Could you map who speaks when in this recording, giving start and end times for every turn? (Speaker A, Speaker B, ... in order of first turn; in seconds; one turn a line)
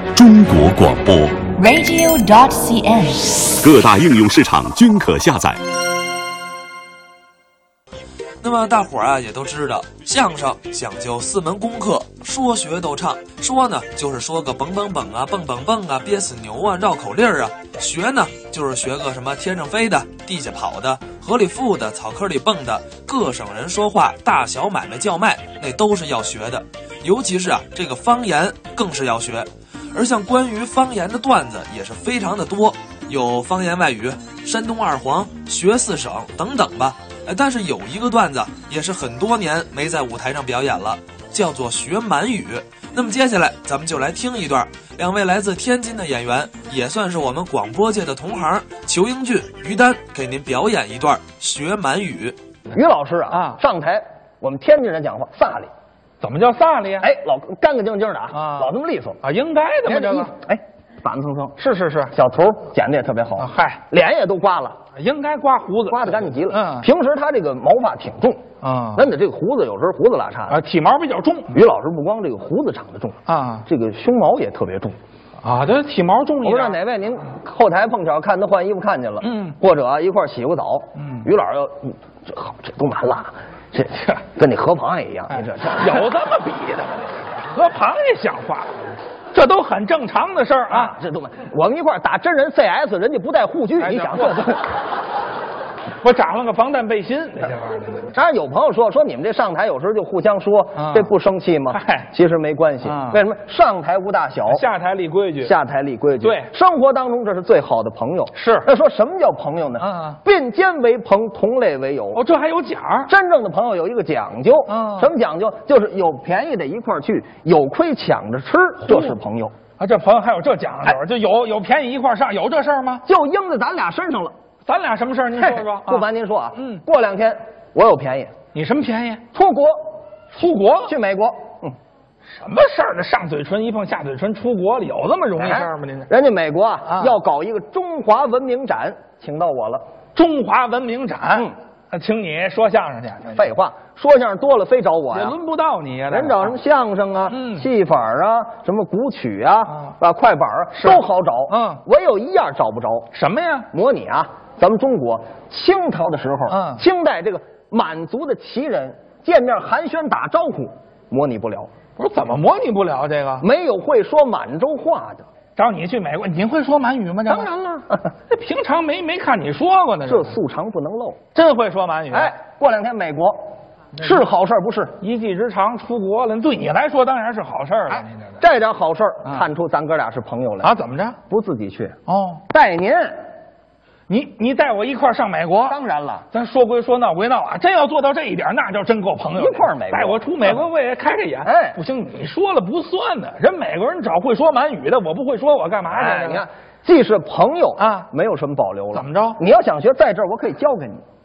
Speaker A: 0.1-1.5
Speaker B: 1.5-3.5
Speaker A: 3.6-5.6
Speaker C: 8.4-52.4
Speaker D: 52.7-55.7
Speaker E: 53.3-53.6
Speaker E: 56.2-57.1
Speaker D: 57.0-59.2
Speaker E: 58.3-58.7
Speaker E: 59.2-60.3
Speaker D: 59.8-61.5
Speaker E: 61.6-62.1
Speaker D: 62.1-64.8
Speaker E: 63.4-63.8
Speaker E: 64.9-66.9
Speaker D: 65.9-70.6
Speaker E: 68.6-69.1
Speaker E: 70.5-71.6
Speaker D: 71.5-75.0
Speaker E: 73.3-73.7
Speaker E: 75.4-76.8
Speaker D: 76.4-86.1
Speaker E: 79.2-79.5
Speaker E: 81.0-81.3
Speaker E: 85.3-88.8
Speaker E: 89.3-90.9
Speaker D: 90.7-94.7
Speaker E: 93.8-94.5
Speaker E: 96.0-98.1
Speaker D: 98.1-104.7
Speaker E: 100.8-101.1
Speaker E: 101.7-102.1
Speaker E: 102.8-103.2
Speaker E: 104.5-105.5
Speaker D: 105.4-112.2
Speaker E: 106.2-106.5
Speaker E: 108.3-108.7
Speaker E: 109.8-110.2
Speaker E: 112.1-113.1
Speaker D: 113.1-119.6
Speaker E: 114.7-115.1
Speaker E: 118.9-119.2
Speaker E: 119.8-123.0
Speaker D: 123.0-124.3
Speaker E: 124.6-126.0
Speaker D: 125.4-128.3
Speaker E: 126.6-126.8
Speaker E: 128.5-129.2
Speaker D: 129.3-129.9
Speaker E: 130.3-130.9
Speaker D: 130.8-131.8
Speaker E: 132.3-136.1
Speaker D: 135.4-139.8
Speaker E: 136.8-137.2
Speaker E: 140.2-143.4
Speaker D: 143.3-145.3
Speaker E: 145.1-146.5
Speaker D: 146.1-153.1
Speaker E: 147.2-147.7
Speaker E: 150.8-151.8
Speaker E: 153.1-153.7
Speaker D: 153.7-161.7
Speaker E: 156.5-156.8
Speaker E: 162.0-163.4
Speaker D: 163.4-165.3
Speaker E: 165.6-167.5
Speaker D: 167.3-168.1
Speaker E: 168.3-170.3
Speaker D: 170.1-171.2
Speaker E: 171.3-172.3
Speaker D: 172.1-175.0
Speaker E: 175.0-178.4
Speaker D: 177.9-180.7
Speaker E: 180.6-181.2
Speaker D: 181.3-182.0
Speaker E: 182.1-182.4
Speaker D: 182.5-183.2
Speaker E: 184.1-185.8
Speaker D: 185.7-186.3
Speaker E: 186.3-196.4
Speaker D: 189.3-190.6
Speaker D: 191.4-191.8
Speaker D: 195.9-201.0
Speaker E: 197.8-198.1
Speaker E: 198.9-199.4